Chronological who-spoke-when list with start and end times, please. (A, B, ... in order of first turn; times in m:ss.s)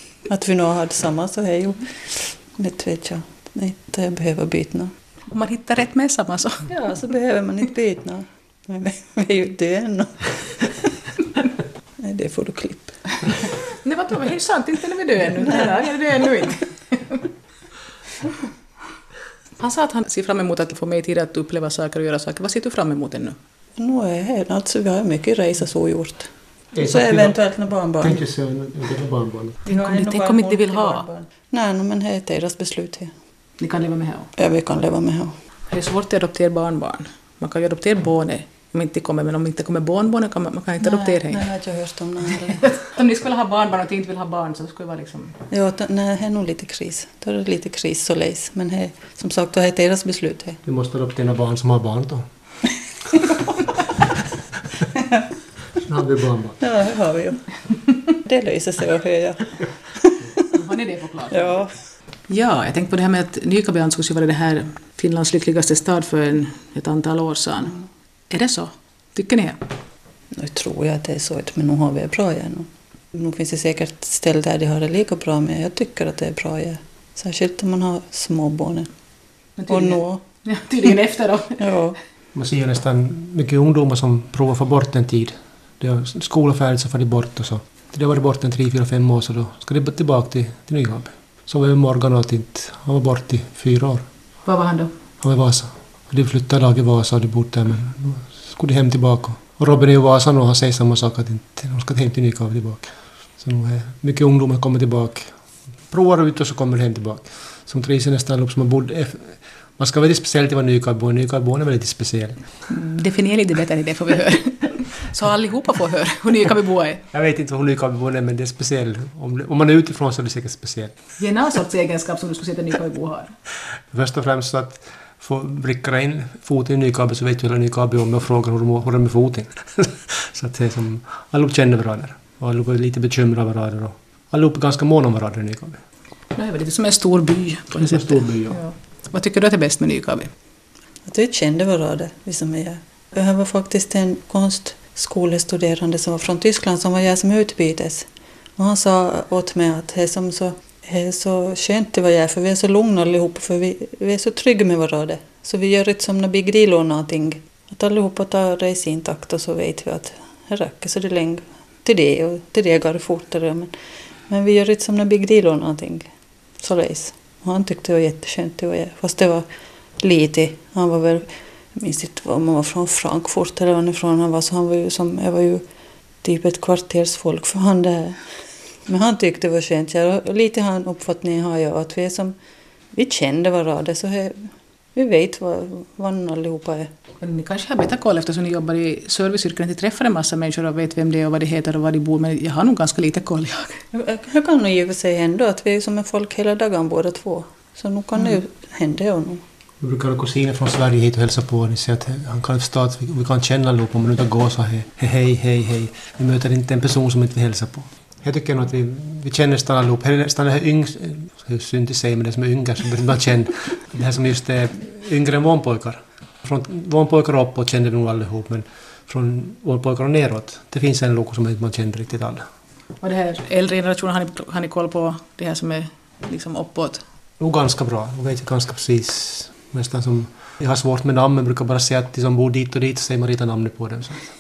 0:00.3-0:04.9 A
0:05.3-0:06.7 B
0:06.7-0:10.9 A
0:12.0-0:13.0 A
0:13.7-0:17.2 B
0:19.6-0:23.4 B
0:23.8-0:28.2 A
0:26.7-0:27.4 C
0:28.0-0:29.6 C
0:29.6-0:31.0 B
0:29.7-0:33.1 A
0:33.6-0:34.3 B
0:34.4-0:35.3 A
0:35.7-0:41.5 B
0:40.8-0:42.7 A
0:42.6-0:45.4 B
0:45.5-0:50.6 A
0:50.7-0:52.2 C
0:55.0-0:55.2 A
0:55.8-0:56.6 C
0:56.6-0:57.5 A
0:58.1-1:00.5 A
1:00.5-1:01.6 B
1:01.3-1:01.7 A
1:02.3-1:09.6 B
1:10.3-1:18.9 A
1:19.6-1:21.7 B
1:19.7-1:20.2 A
1:21.6-1:22.0 A
1:22.3-1:34.0 C
1:34.4-1:34.9 B
1:35.2-1:45.3 C
1:45.9-1:52.4 C
1:52.7-1:57.0 B
1:57.1-2:00.9 C
2:01.2-2:03.3 B
2:03.9-2:15.8 C
2:16.4-2:20.3 B
2:17.7-2:18.6 C
2:21.1-2:43.7 A
2:44.3-2:46.1 A
2:46.6-2:49.5 A
2:50.0-2:55.6 A
2:56.2-2:58.2 A
2:58.9-3:02.4 A
3:03.0-3:06.9 A
3:07.2-3:13.8 B
3:13.9-3:19.4 A
3:19.8-3:42.4 C
3:43.0-3:47.0 B
3:47.4-3:54.3 C